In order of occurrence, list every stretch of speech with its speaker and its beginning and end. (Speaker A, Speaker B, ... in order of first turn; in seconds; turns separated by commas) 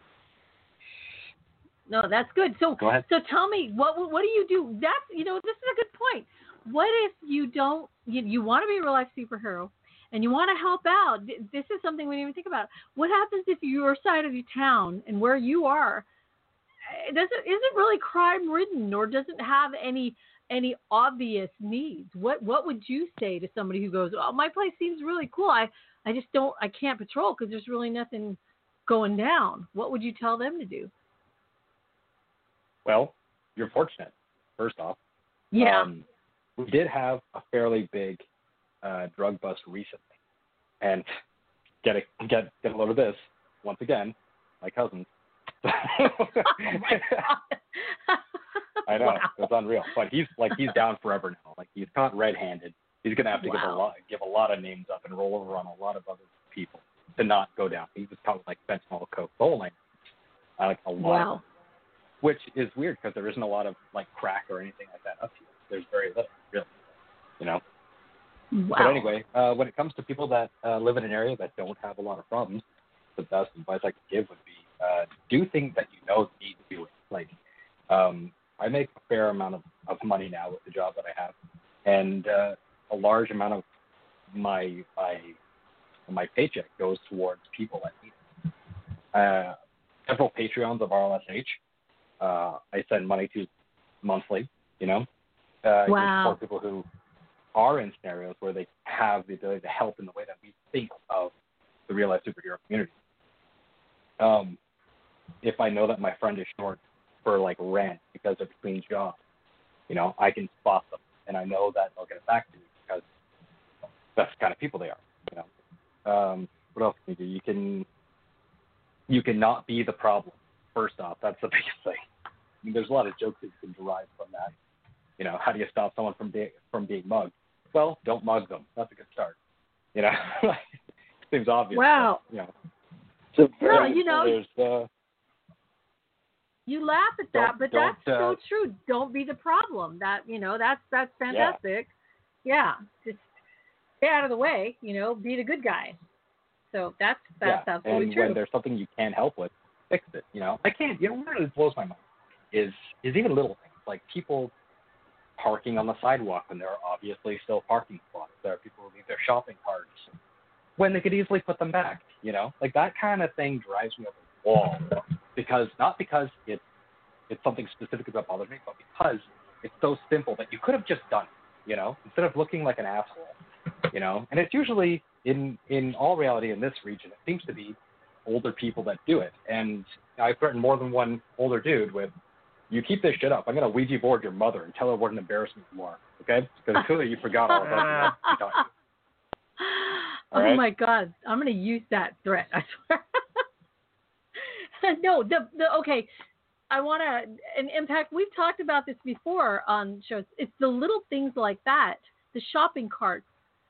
Speaker A: 1.9-16.0, Speaker B: 2.8-3.0, Speaker A: 16.9-30.9, Speaker B: 32.8-35.0, Speaker A: 35.5-35.9, Speaker B: 35.5-36.0, Speaker B: 36.6-38.2, Speaker B: 38.8-40.1, Speaker B: 40.8-41.0, Speaker B: 41.8-45.1, Speaker B: 45.6-47.3, Speaker A: 46.4-47.4, Speaker B: 48.9-59.8, Speaker A: 48.9-49.3, Speaker A: 53.4-53.8, Speaker B: 60.6-61.3, Speaker A: 61.0-61.4, Speaker B: 62.2-66.8, Speaker A: 68.5-69.1, Speaker B: 68.7-72.6, Speaker B: 73.2-77.3, Speaker B: 77.9-83.6, Speaker B: 84.3-85.4, Speaker B: 86.1-88.1, Speaker B: 89.1-89.5, Speaker B: 90.0-91.6, Speaker B: 92.2-93.5, Speaker B: 94.0-95.1, Speaker B: 95.6-96.8, Speaker A: 95.9-96.4, Speaker B: 97.5-101.3, Speaker B: 101.9-102.9, Speaker B: 104.2-104.6, Speaker B: 105.4-109.2, Speaker B: 109.9-113.0, Speaker B: 114.2-115.5, Speaker B: 116.0-117.9, Speaker B: 119.1-122.0, Speaker B: 122.6-124.5, Speaker B: 125.2-129.3, Speaker B: 129.9-130.7, Speaker B: 131.3-132.5, Speaker A: 131.7-132.2, Speaker B: 133.4-134.9, Speaker A: 133.6-134.4, Speaker A: 136.7-141.9, Speaker B: 137.3-138.4, Speaker B: 141.3-141.6, Speaker A: 142.4-143.3, Speaker A: 144.0-146.0, Speaker A: 146.7-148.4, Speaker B: 147.4-152.0, Speaker B: 152.5-154.5, Speaker B: 155.4-160.1, Speaker B: 160.8-166.6, Speaker B: 167.3-173.3, Speaker B: 173.9-182.1, Speaker B: 182.7-188.7, Speaker A: 187.5-188.3, Speaker A: 189.6-193.4, Speaker B: 190.3-190.6, Speaker A: 194.4-196.1, Speaker A: 196.7-203.3